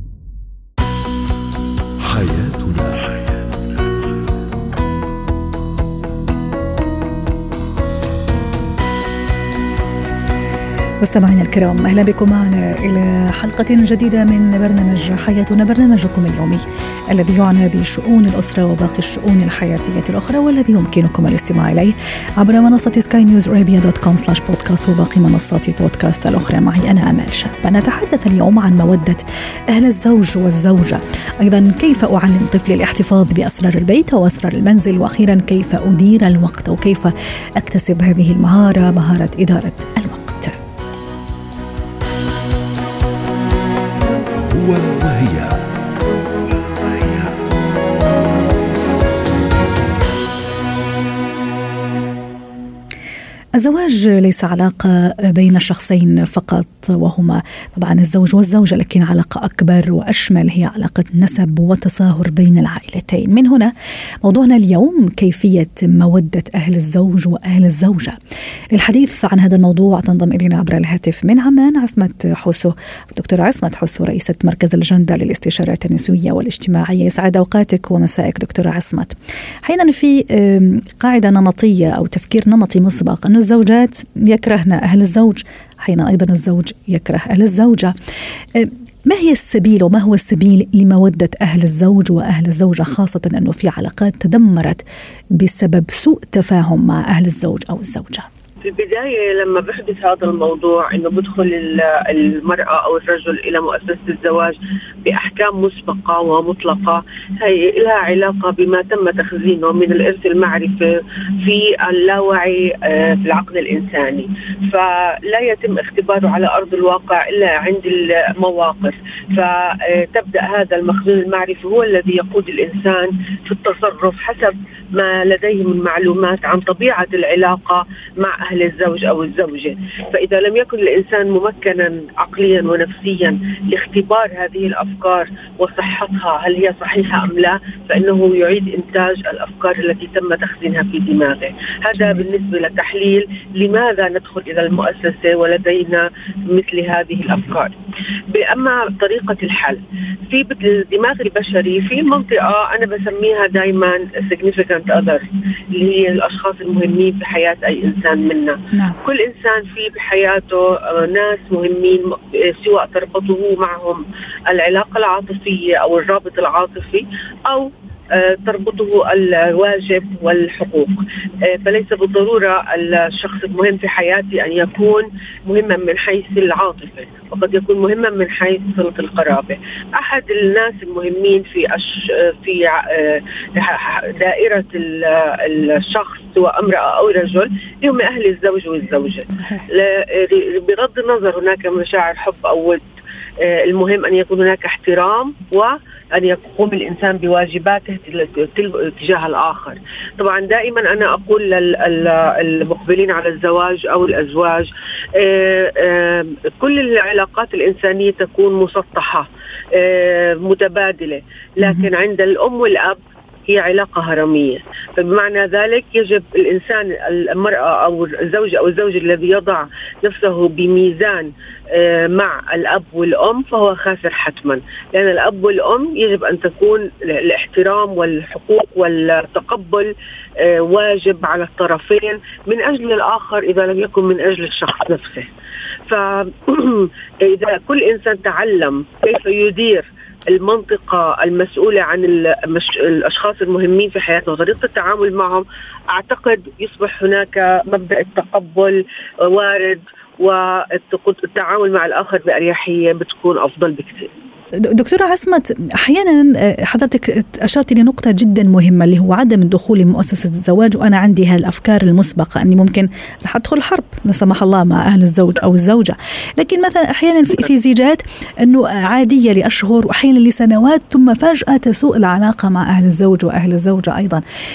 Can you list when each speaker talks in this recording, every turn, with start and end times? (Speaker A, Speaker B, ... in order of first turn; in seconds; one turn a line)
Speaker A: 2.0-3.0
Speaker B: 11.0-40.5
Speaker A: 44.4-45.6
Speaker B: 53.5-68.2
Speaker B: 68.7-87.9
Speaker B: 88.5-94.8
Speaker B: 95.4-98.2
Speaker C: 98.6-147.7
Speaker B: 142.0-142.2
Speaker C: 148.3-192.8
Speaker B: 189.4-189.7
Speaker C: 193.4-235.3
Speaker B: 211.6-211.9
Speaker C: 235.9-254.1
Speaker B: 254.7-274.2